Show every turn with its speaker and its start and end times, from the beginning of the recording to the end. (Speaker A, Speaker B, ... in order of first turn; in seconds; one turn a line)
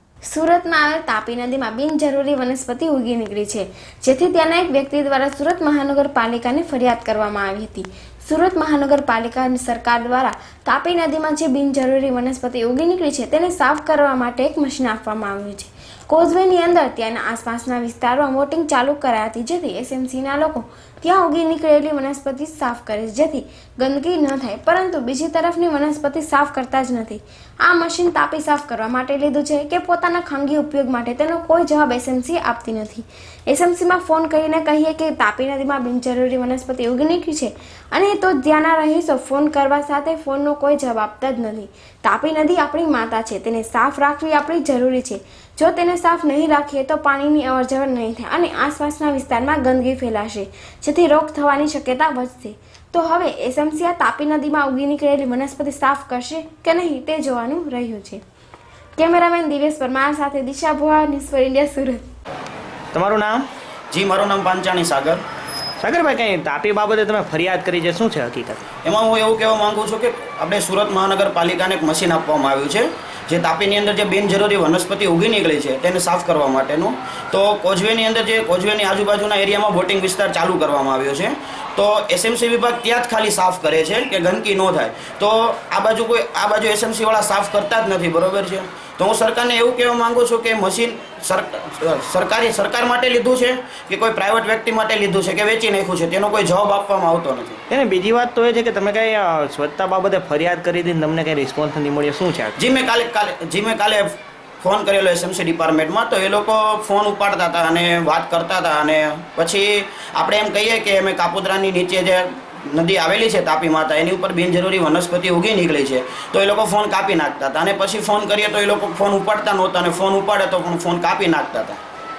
Speaker A: 0.3-58.2
Speaker A: 59.0-62.0
Speaker B: 62.9-63.5
Speaker C: 63.9-65.2
Speaker B: 65.8-68.7
Speaker C: 68.8-97.6
Speaker B: 97.7-102.5
Speaker C: 102.6-121.8